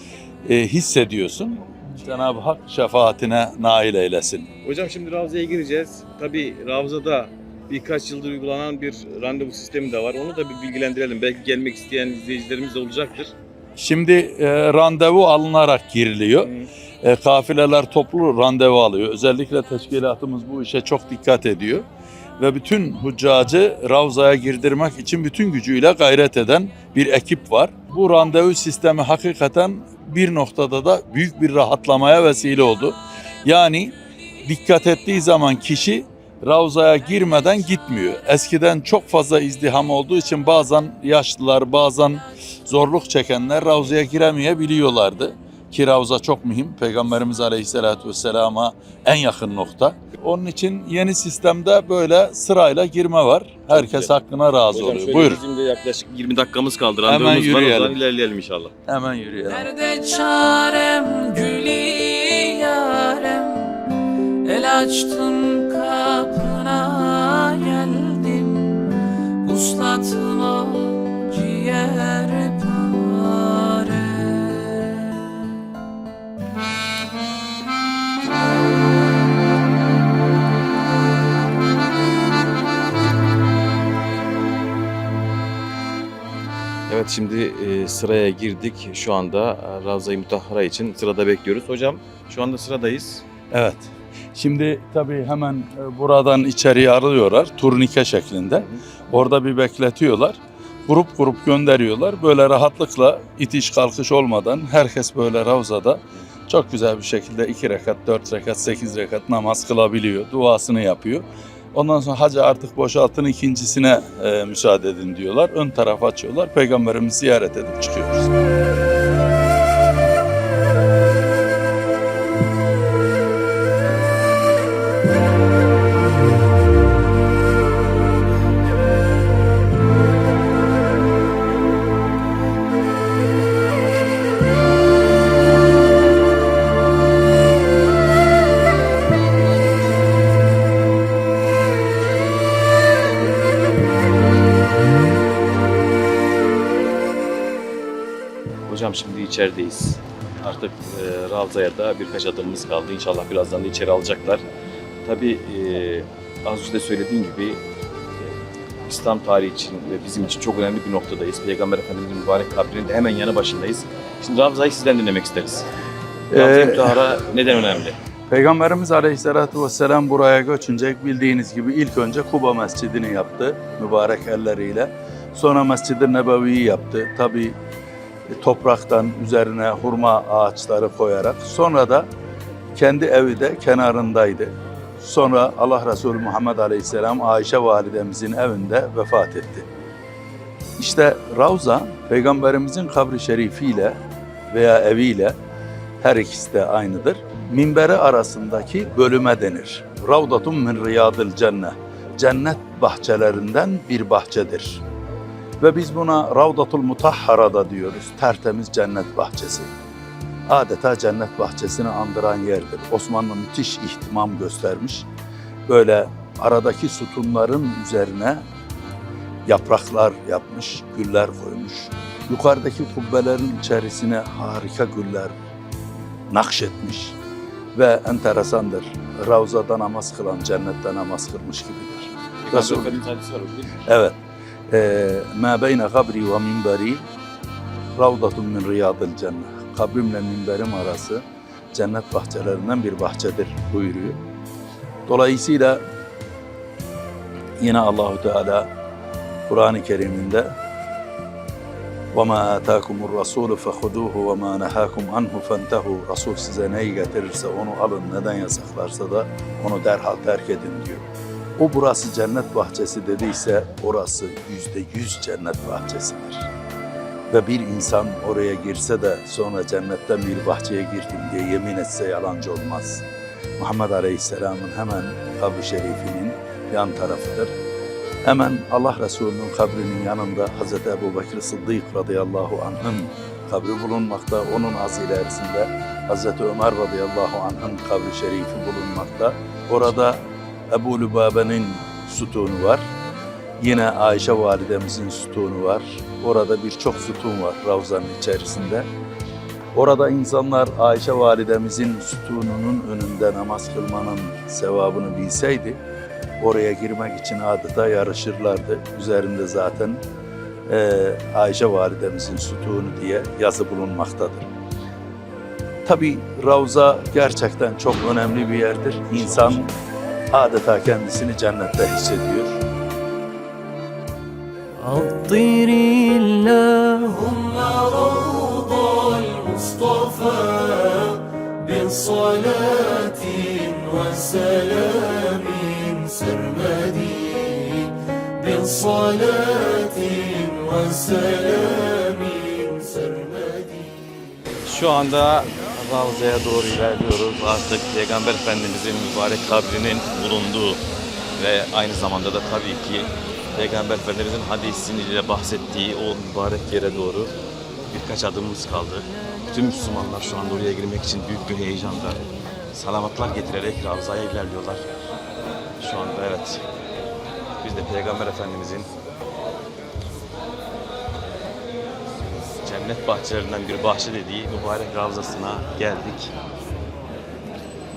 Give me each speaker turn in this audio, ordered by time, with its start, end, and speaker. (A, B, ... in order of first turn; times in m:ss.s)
0:00.4-0:04.5 A
0:04.6-0:13.3 B
0:13.8-0:16.5 A
0:16.4-0:16.7 B
0:17.0-0:21.8 A
0:22.4-0:55.4 A
0:53.7-0:54.2 B
0:54.7-0:58.7 B
0:57.1-0:58.0 A
0:58.9-0:59.7 A
0:59.5-1:03.9 C
1:04.4-1:15.4 C
1:26.9-1:33.2 B
1:33.5-1:58.3 A
2:28.7-2:34.4 B
2:35.0-2:37.6 B
2:38.9-2:45.7 B
2:46.3-2:47.0 A
2:46.3-2:48.0 B
2:48.3-2:57.6 A
2:58.4-3:02.1 A
3:02.8-3:09.7 A
3:10.8-3:14.0 A
3:14.5-3:15.4 A
3:16.0-3:24.8 A
3:25.6-3:29.7 A
3:30.5-3:35.1 A
3:35.7-3:38.4 A
3:39.5-3:45.3 A
3:46.3-3:47.2 A
3:47.8-3:53.0 A
3:52.4-3:53.7 B
3:53.9-3:54.2 A
3:54.7-3:57.0 A
3:58.0-4:01.2 A
4:01.8-4:04.2 A
4:05.1-4:05.8 A
4:07.6-4:08.7 A
4:09.5-4:10.5 A
4:12.1-4:21.1 A
4:21.6-4:26.5 A
4:27.3-4:33.0 A
4:33.6-4:37.5 A
4:38.3-4:50.2 A
4:50.7-4:52.8 A
4:53.6-4:58.9 A
4:59.7-5:05.8 A
5:06.4-5:10.0 A
5:10.7-5:14.5 A
5:15.9-5:19.7 A
5:20.3-5:22.6 A
5:24.8-5:43.8 D
5:44.6-5:50.8 B
5:51.4-5:57.3 B
5:57.9-6:04.8 B
6:05.8-6:06.6 B
6:07.6-6:08.9 B
6:12.6-6:16.3 B